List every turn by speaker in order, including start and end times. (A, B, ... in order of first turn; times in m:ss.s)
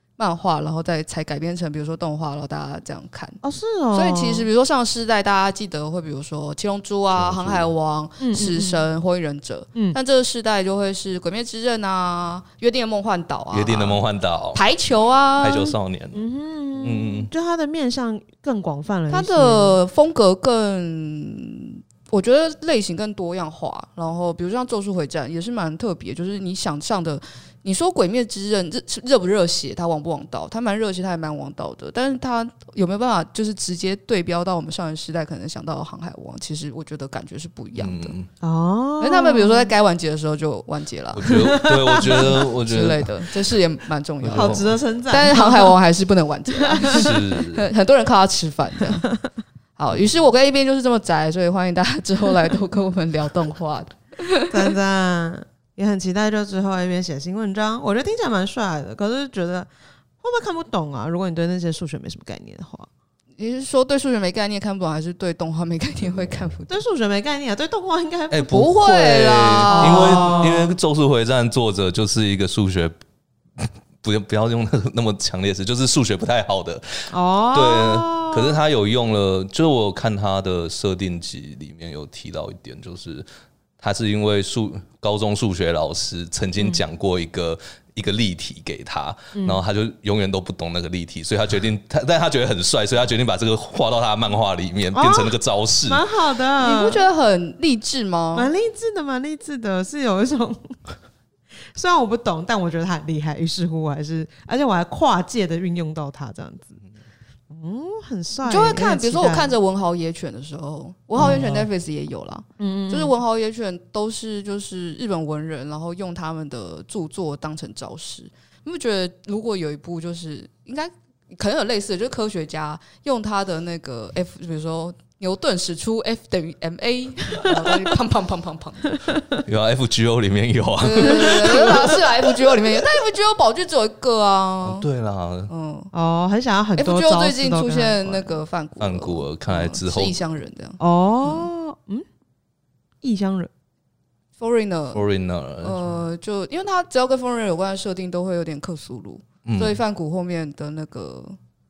0:00.2-0:03.4 A
0:03.4-0:04.5 B
0:03.9-0:14.0 A
0:07.1-0:07.7 C
0:08.2-0:08.8 B
0:13.5-0:14.6 C
0:14.6-0:15.7 A
0:15.4-0:16.2 C
0:16.1-0:19.8 B
0:16.8-0:17.3 C
0:19.1-0:38.2 A
0:37.8-0:38.3 C
0:38.4-0:39.7 B
0:39.0-0:49.1 A
0:41.1-0:43.2 C
0:41.3-0:42.5 B
0:44.2-0:44.8 C
0:44.3-0:45.8 B
0:46.6-0:47.1 B
0:46.9-0:47.7 C
0:49.8-0:54.6 A
0:54.5-0:59.7 B
1:00.2-1:02.9 B
1:03.4-1:06.8 A
1:06.7-1:08.6 B
1:08.3-1:12.9 C
1:08.5-1:10.5 A
1:09.7-1:10.7 B
1:13.6-1:23.3 C
1:17.1-1:18.6 B
1:23.8-1:36.0 C
1:29.3-1:29.6 B
1:34.9-1:37.0 B
1:36.6-1:38.5 A
1:38.3-1:40.8 B
1:41.7-1:46.8 B
1:47.5-1:49.5 B
1:48.5-2:09.0 A
1:51.2-1:51.7 B
1:52.6-1:53.2 B
2:07.4-2:07.7 B
2:09.0-2:09.4 B
2:09.4-2:12.1 C
2:10.8-2:14.8 A
2:14.6-2:15.5 C
2:15.5-2:15.9 A
2:15.9-2:18.4 B
2:16.8-2:21.5 A
2:18.8-2:20.2 C
2:20.8-2:22.1 B
2:23.0-2:23.5 B
2:24.4-2:25.0 A
2:24.9-2:26.0 C
2:25.6-2:31.4 A
2:29.4-2:29.8 C